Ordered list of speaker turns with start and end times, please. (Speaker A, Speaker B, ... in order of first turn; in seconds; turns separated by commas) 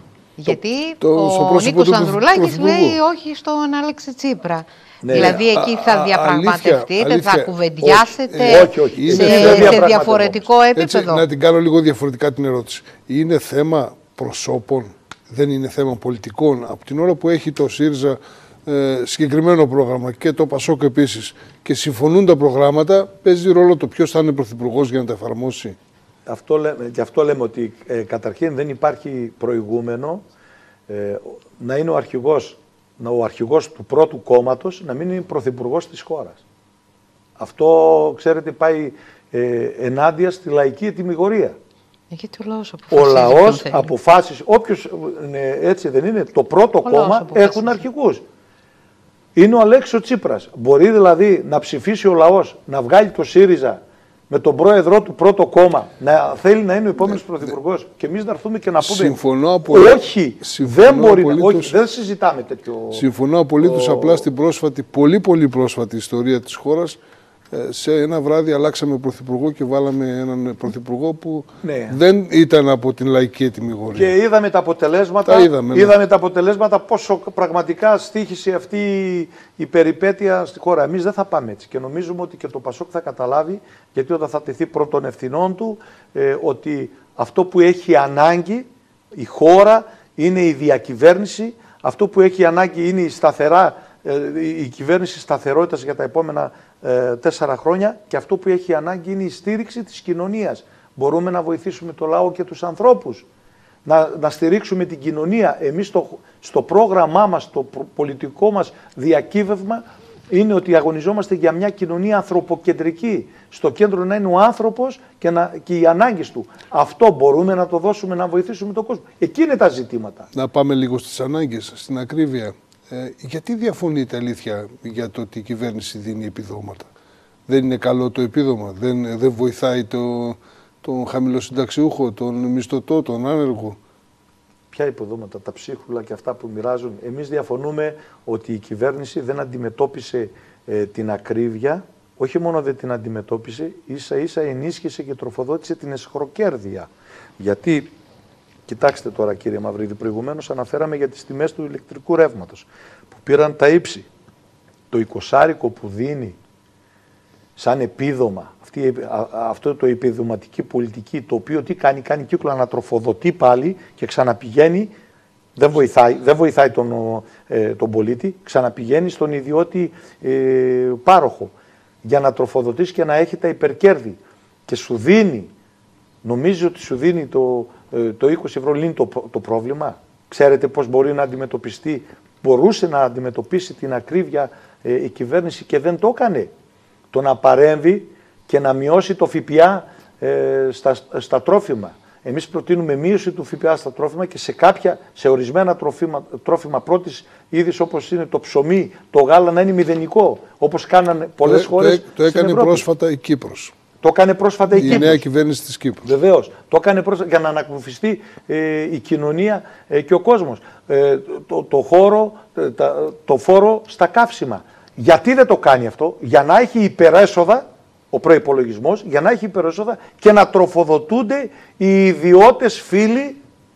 Speaker A: 0.4-11.2, Speaker B: 1.0-3.0, Speaker C: 5.0-5.4, Speaker B: 5.1-9.9, Speaker C: 8.4-10.4, Speaker B: 10.8-25.8, Speaker C: 26.3-30.2, Speaker C: 30.9-36.4, Speaker C: 37.4-41.5, Speaker A: 42.1-43.9, Speaker C: 42.9-48.2, Speaker A: 46.8-47.8, Speaker C: 49.3-63.0, Speaker B: 58.8-61.7, Speaker B: 62.9-67.0, Speaker C: 63.6-64.3, Speaker B: 67.5-74.1, Speaker C: 71.6-72.0, Speaker C: 73.9-103.2, Speaker B: 75.2-75.9, Speaker C: 103.8-120.3, Speaker B: 120.3-126.9, Speaker B: 127.5-133.8, Speaker C: 134.7-147.9, Speaker C: 148.7-154.1, Speaker C: 154.9-156.4, Speaker C: 157.6-164.9, Speaker C: 165.6-171.5, Speaker C: 172.0-175.5, Speaker C: 176.2-186.5, Speaker C: 187.1-202.8, Speaker B: 201.4-203.7, Speaker C: 204.0-205.2, Speaker B: 204.7-206.1, Speaker C: 206.0-223.4